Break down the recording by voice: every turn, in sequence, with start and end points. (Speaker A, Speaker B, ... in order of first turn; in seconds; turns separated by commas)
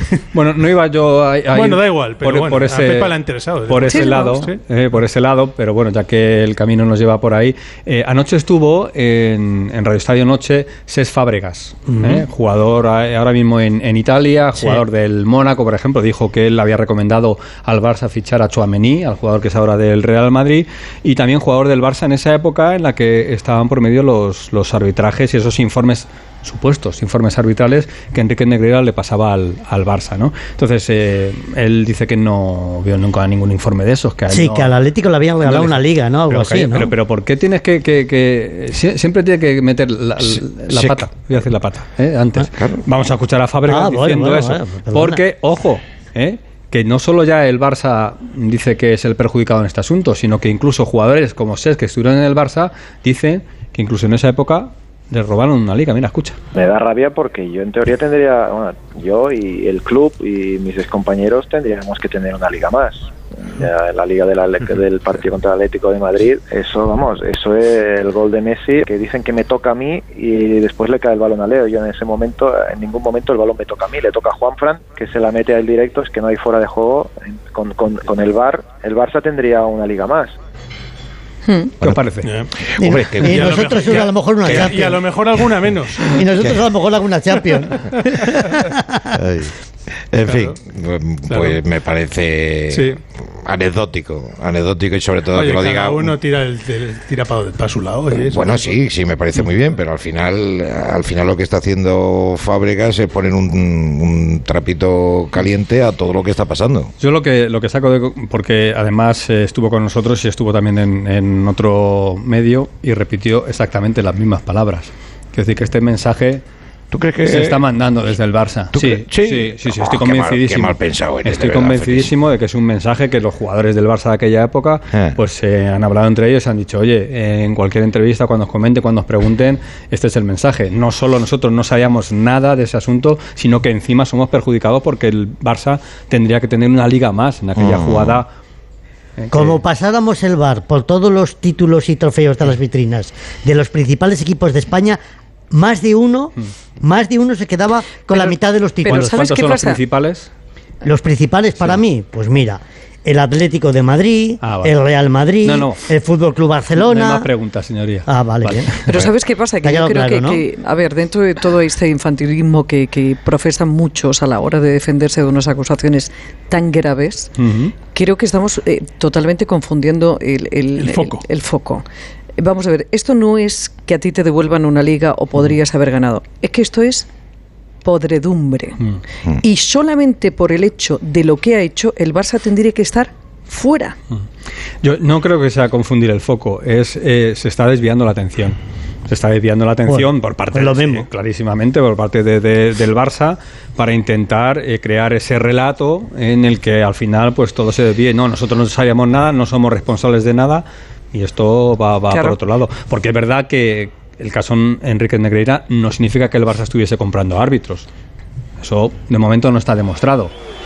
Speaker A: 0.3-3.1, Speaker B: 1.5-4.6, Speaker A: 3.7-34.8, Speaker C: 3.9-4.5, Speaker D: 11.9-12.2, Speaker D: 34.3-36.9, Speaker A: 35.4-56.4, Speaker E: 40.7-41.0, Speaker D: 43.7-45.2, Speaker F: 56.5-80.3, Speaker C: 81.5-81.7, Speaker A: 81.8-82.3, Speaker B: 82.2-82.5, Speaker D: 82.8-85.1, Speaker E: 82.8-83.5, Speaker B: 83.2-86.2, Speaker D: 86.1-89.0, Speaker E: 89.1-89.5, Speaker E: 90.1-96.2, Speaker B: 90.3-90.6, Speaker B: 91.3-91.6, Speaker B: 92.7-93.0, Speaker B: 95.3-98.8, Speaker E: 98.1-106.9, Speaker A: 107.0-116.4, Speaker E: 116.9-117.6, Speaker A: 117.3-138.3, Speaker E: 118.7-122.1, Speaker E: 124.9-125.2, Speaker E: 137.6-138.2, Speaker A: 139.2-139.6, Speaker D: 139.3-145.0, Speaker D: 145.5-149.2, Speaker C: 148.1-149.8, Speaker A: 148.8-150.3, Speaker D: 150.8-157.3, Speaker A: 154.4-154.8, Speaker A: 155.4-155.8, Speaker A: 156.7-159.1, Speaker D: 158.1-158.7, Speaker C: 158.8-167.3, Speaker D: 159.6-160.4, Speaker A: 167.3-167.8, Speaker C: 167.9-171.8, Speaker B: 170.8-171.2, Speaker C: 172.4-177.1, Speaker C: 177.8-178.8, Speaker C: 179.4-183.9, Speaker A: 184.8-188.6, Speaker A: 189.1-207.9, Speaker D: 189.8-191.1, Speaker C: 202.1-202.4, Speaker A: 208.6-210.3